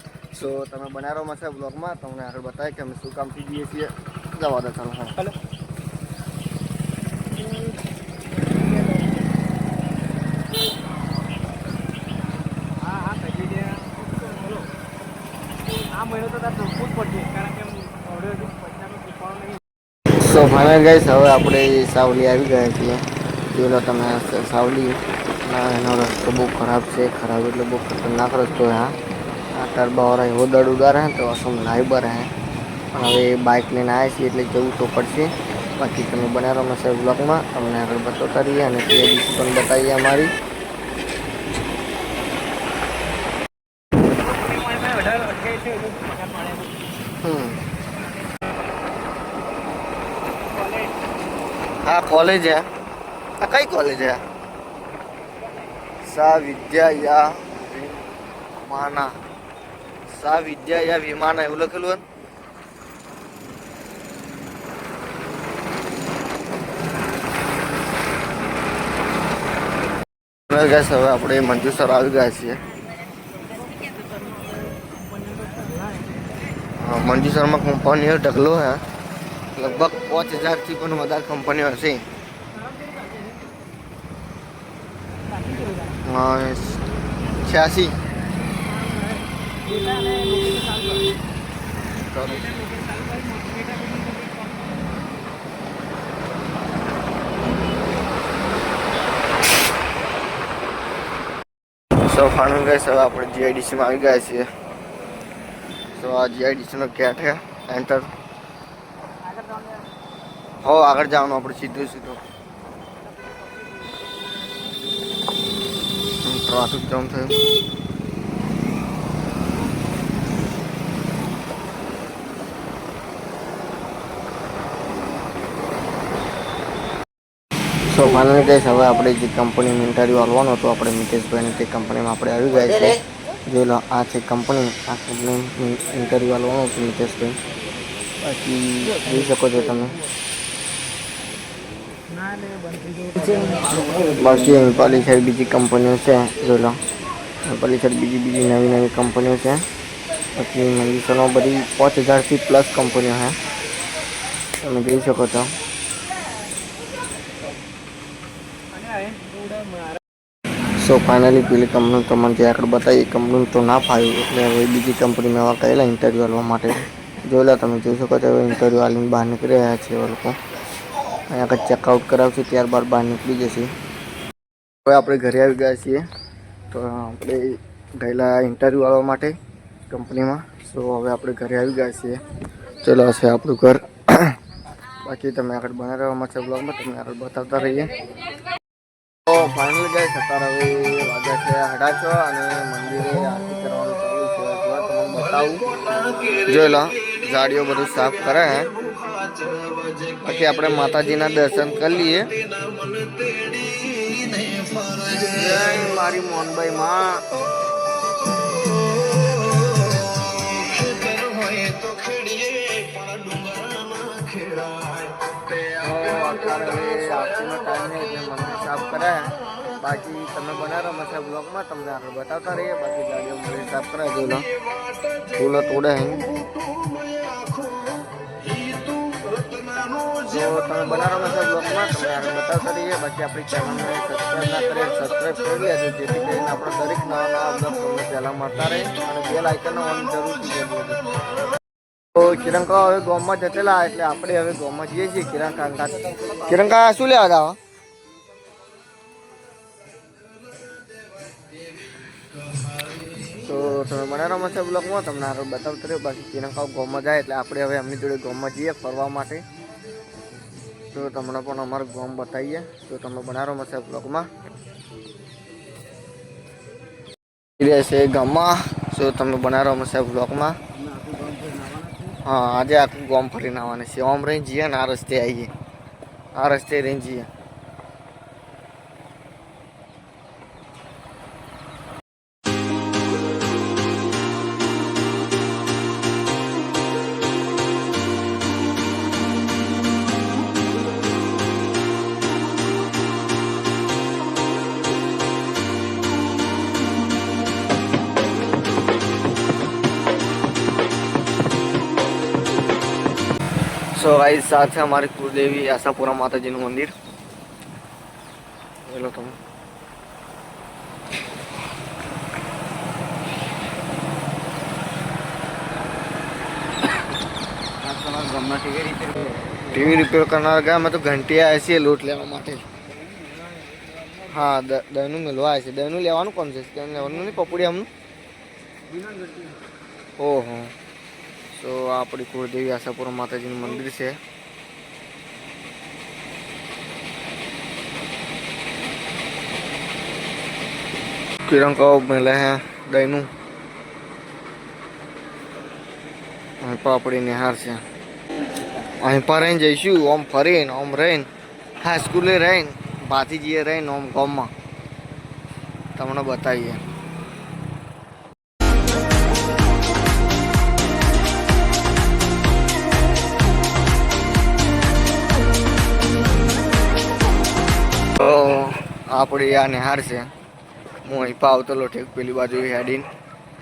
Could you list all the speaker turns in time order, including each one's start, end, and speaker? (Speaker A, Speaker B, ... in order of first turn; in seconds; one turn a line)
Speaker A: 0.3-5.2
Speaker B: 13.0-13.9
Speaker B: 16.0-19.5
Speaker A: 20.1-28.9
Speaker A: 29.5-32.3
Speaker A: 32.9-40.3
Speaker B: 44.8-45.4
Speaker A: 47.2-47.6
Speaker A: 51.8-52.6
Speaker A: 53.4-54.2
Speaker A: 56.0-58.0
Speaker A: 58.6-59.1
Speaker A: 60.1-62.0
Speaker A: 70.5-72.6
Speaker B: 75.3-75.7
Speaker A: 76.8-78.8
Speaker A: 79.5-82.0
Speaker A: 86.0-87.9
Speaker B: 89.7-91.0
Speaker A: 92.0-92.5
Speaker B: 92.8-94.1
Speaker A: 102.0-104.5
Speaker A: 105.9-108.1
Speaker A: 110.6-112.2
Speaker A: 116.2-117.3
Speaker A: 127.9-137.4
Speaker A: 138.2-140.0
Speaker B: 142.2-143.9
Speaker A: 143.8-146.8
Speaker A: 147.4-149.6
Speaker A: 150.3-153.3
Speaker A: 154.6-155.5
Speaker A: 160.8-170.3
Speaker A: 171.3-173.7
Speaker A: 174.8-176.0
Speaker A: 176.7-179.3
Speaker A: 179.9-182.2
Speaker A: 182.8-184.3
Speaker A: 185.0-187.9
Speaker A: 189.3-195.6
Speaker A: 196.4-198.7
Speaker A: 200.2-202.3
Speaker A: 204.9-207.2
Speaker A: 215.6-224.4
Speaker A: 225.3-226.3
Speaker A: 230.2-241.0
Speaker A: 242.1-247.6
Speaker A: 253.3-259.4
Speaker A: 260.9-264.3
Speaker A: 267.6-270.5
Speaker B: 270.7-272.2
Speaker A: 272.2-275.5
Speaker A: 276.3-277.3
Speaker A: 303.9-306.9
Speaker A: 308.9-309.4
Speaker B: 317.8-319.8
Speaker A: 319.7-322.6
Speaker A: 324.2-327.9
Speaker A: 330.2-330.7
Speaker A: 331.5-334.1
Speaker A: 341.5-343.3
Speaker A: 346.6-347.8
Speaker A: 349.0-351.3
Speaker A: 351.8-354.5
Speaker A: 355.9-356.8
Speaker A: 368.2-370.3
Speaker A: 371.0-373.1